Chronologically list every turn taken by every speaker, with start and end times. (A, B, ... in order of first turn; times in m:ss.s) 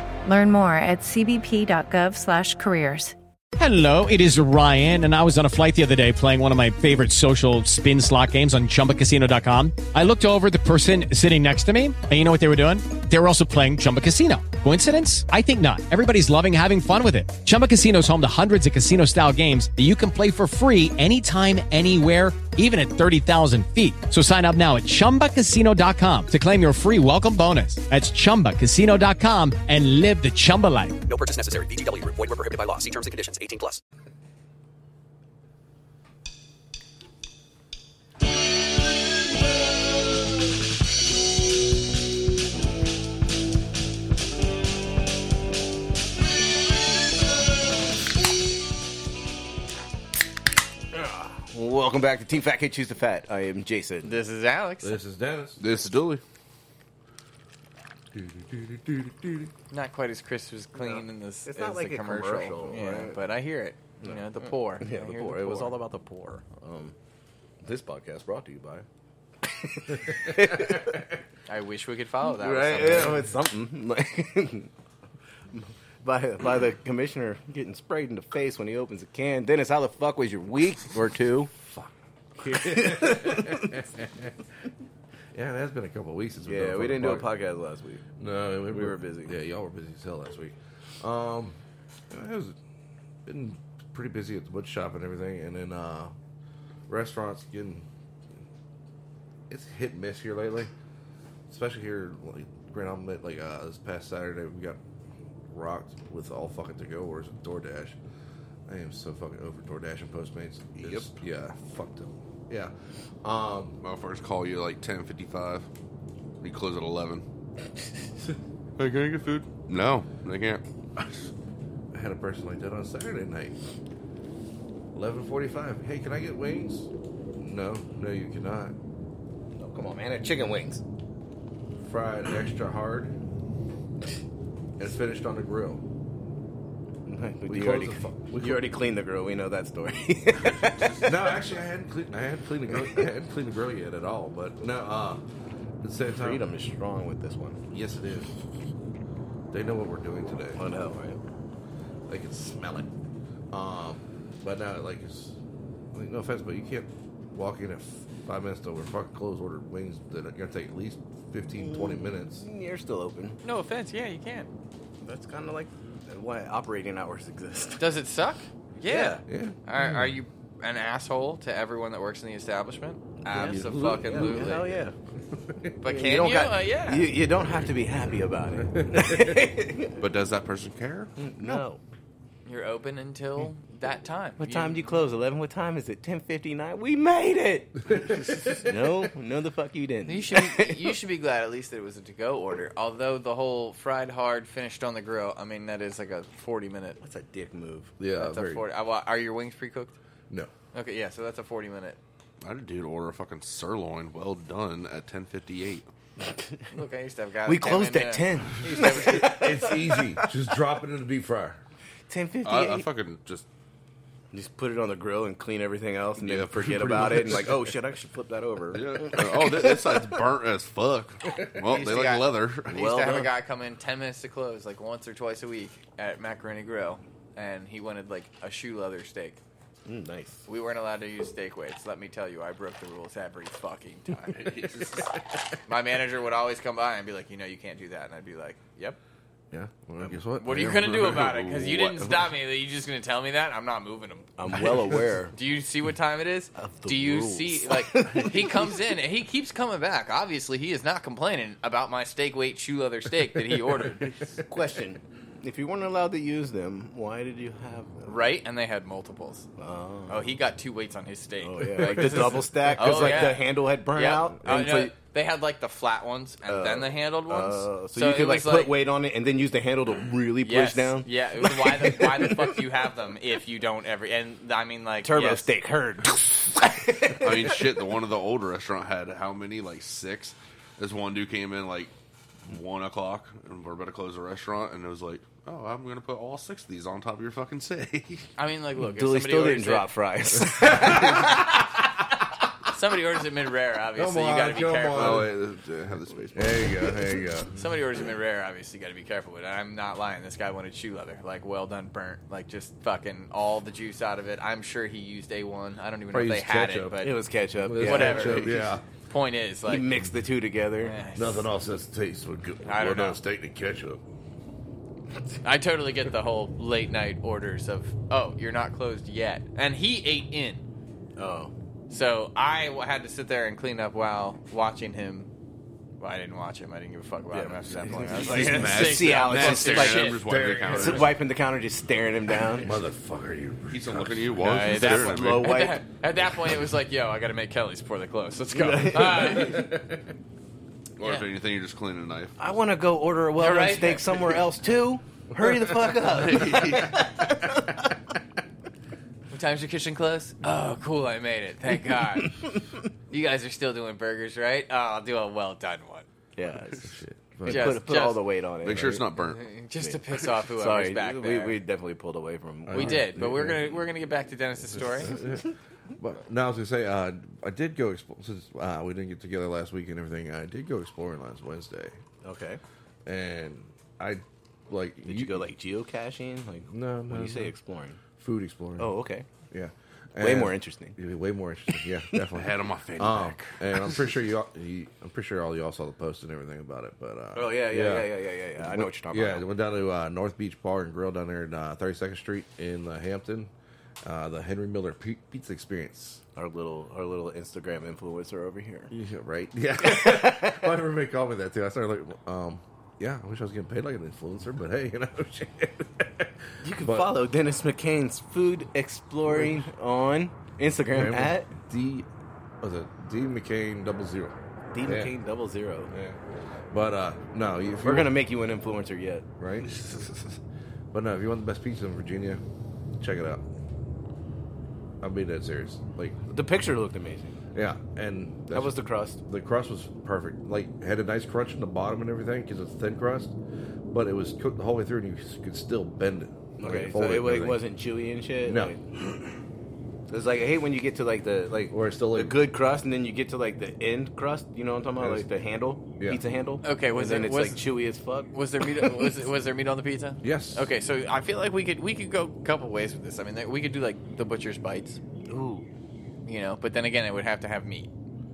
0:00.2-0:03.2 A
0:03.6-0:31.0 B
0:31.1-0:33.8 C
0:50.9-0:54.2 D
0:54.0-0:55.0 E
0:54.8-0:55.6 F
0:55.6-0:56.2 G
0:58.2-0:59.4 F
0:59.7-1:05.8 E
1:00.8-1:03.2 D
1:04.0-1:07.0 D
1:07.6-1:08.9 D
1:09.4-1:11.1 D
1:11.5-1:13.2 E
1:12.4-1:14.7 D
1:15.5-1:21.5 D
1:21.7-1:24.3 F
1:22.5-1:23.8 D
1:25.3-1:27.3 F
1:26.5-1:28.1 D
1:28.2-1:31.6 F
1:28.7-1:29.4 D
1:32.1-1:32.6 F
1:33.3-1:36.2 F
1:36.9-1:37.9 F
1:39.5-1:40.7 F
1:41.5-1:44.8 F
1:45.5-1:48.0 F
1:48.7-1:52.7 F
1:50.8-1:51.2 G
1:53.2-1:53.8 F
1:53.8-1:55.7 G
1:56.4-1:57.2 G
1:58.8-2:01.3 G
2:01.9-2:03.6 F
2:04.9-2:08.8 F
2:09.6-2:10.8 D
2:11.8-2:13.2 F
2:14.8-2:15.8 F
2:17.1-2:21.3 D
2:17.5-2:18.7 F
2:21.0-2:25.2 F
2:25.8-2:26.4 F
2:26.1-2:27.6 D
2:27.7-2:28.3 F
2:29.5-2:30.6 F
2:30.6-2:31.2 D
2:32.1-2:32.9 F
2:33.5-2:35.4 F
2:35.9-2:42.4 F
2:41.6-2:43.4 D
2:43.4-2:44.5 E
2:45.0-2:47.9 D
2:47.8-2:54.8 E
2:48.8-2:49.2 D
2:49.3-2:49.6 F
2:53.3-2:55.0 D
2:53.4-2:54.4 F
2:55.5-2:55.7 F
2:55.8-2:57.2 E
2:55.8-3:00.0 D
2:58.8-2:59.3 F
3:00.0-3:01.1 G
3:01.2-3:01.8 D
3:02.5-3:05.0 E
3:04.4-3:10.9 D
3:08.0-3:08.4 G
3:10.1-3:17.0 E
3:17.0-3:18.7 D
3:18.0-3:18.4 F
3:18.2-3:20.0 E
3:20.7-3:22.0 E
3:22.4-3:25.9 G
3:26.3-3:26.6 D
3:26.7-3:29.5 E
3:27.5-3:30.2 D
3:28.9-3:31.6 F
3:32.1-3:32.9 D
3:32.4-3:33.5 G
3:34.3-3:40.0 D
3:36.2-3:37.5 G
3:36.6-3:37.6 F
3:38.7-3:42.8 G
3:41.7-3:49.4 E
3:42.7-3:43.3 D
3:49.9-3:50.4 D
3:50.5-3:54.5 E
3:54.3-3:55.1 G
3:55.7-3:59.0 E
3:59.5-4:00.8 F
4:00.4-4:04.3 E
4:00.6-4:02.2 G
4:04.4-4:05.3 D
4:05.3-4:14.1 E
4:06.6-4:08.7 D
4:14.5-4:18.1 D
4:18.0-4:19.5 E
4:19.6-4:20.4 D
4:20.1-4:28.8 E
4:21.4-4:25.0 D
4:26.5-4:32.6 D
4:30.4-4:35.5 E
4:35.0-4:37.6 D
4:37.2-4:41.9 G
4:42.5-4:48.3 G
4:48.4-4:49.9 E
4:48.8-4:51.7 D
4:52.7-4:55.2 E
4:54.0-4:55.6 F
4:54.9-4:57.2 G
4:56.4-4:57.5 F
4:57.6-5:07.2 E
5:06.1-5:07.0 F
5:07.0-5:08.7 D
5:07.6-5:08.8 F
5:07.8-5:09.9 E
5:09.7-5:11.0 D
5:10.8-5:11.5 E
5:11.2-5:14.0 F
5:12.6-5:13.2 E
5:15.4-5:20.6 E
5:21.2-5:21.5 D
5:21.9-5:25.3 E
5:26.0-5:30.2 E
5:27.3-5:32.7 D
5:27.9-5:31.1 G
5:30.3-5:31.1 F
5:32.6-5:34.5 F
5:33.7-5:35.6 G
5:34.4-5:39.7 E
5:34.7-5:35.8 D
5:38.5-5:39.4 D
5:39.4-5:39.8 F
5:41.0-5:42.4 G
5:42.4-5:47.9 D
5:43.4-5:44.3 E
5:46.1-5:47.1 G
5:49.3-5:52.4 E
5:53.1-5:56.1 E
5:56.4-5:56.9 D
5:56.9-5:57.9 F
5:57.4-5:59.0 D
5:57.5-5:58.2 E
5:58.6-5:59.5 G
5:59.2-6:01.6 E
5:59.8-6:03.3 D
6:02.7-6:03.7 F
6:02.7-6:05.1 E
6:04.7-6:12.0 F
6:05.1-6:05.4 D
6:12.2-6:12.6 D
6:13.1-6:15.5 F
6:15.0-6:18.0 D
6:16.7-6:17.5 F
6:18.2-6:18.9 F
6:18.8-6:19.2 D
6:19.5-6:33.5 F
6:20.2-6:21.0 D
6:22.3-6:24.1 G
6:27.3-6:29.4 D
6:34.0-6:36.2 F
6:36.4-6:38.9 D
6:38.9-6:47.1 F
6:39.8-6:40.7 D
6:46.6-6:51.5 D
6:49.3-6:49.7 F
6:50.9-6:52.1 F
6:52.6-6:55.1 F
6:54.7-6:55.9 D
6:55.9-6:56.2 F
6:56.7-6:58.1 F
6:57.8-6:59.3 D
6:59.4-6:59.7 F
6:59.6-7:00.4 G
7:00.9-7:02.4 F
7:03.0-7:03.4 F
7:05.0-7:06.2 F
7:06.3-7:07.4 D
7:07.5-7:13.3 F
7:08.5-7:09.2 D
7:13.9-7:17.6 F
7:16.6-7:18.9 D
7:18.4-7:18.7 F
7:20.1-7:29.0 D
7:21.7-7:22.4 F
7:25.0-7:25.3 F
7:26.6-7:27.6 E
7:28.3-7:35.0 E
7:30.2-7:30.7 F
7:35.3-7:35.7 D
7:36.3-7:37.9 E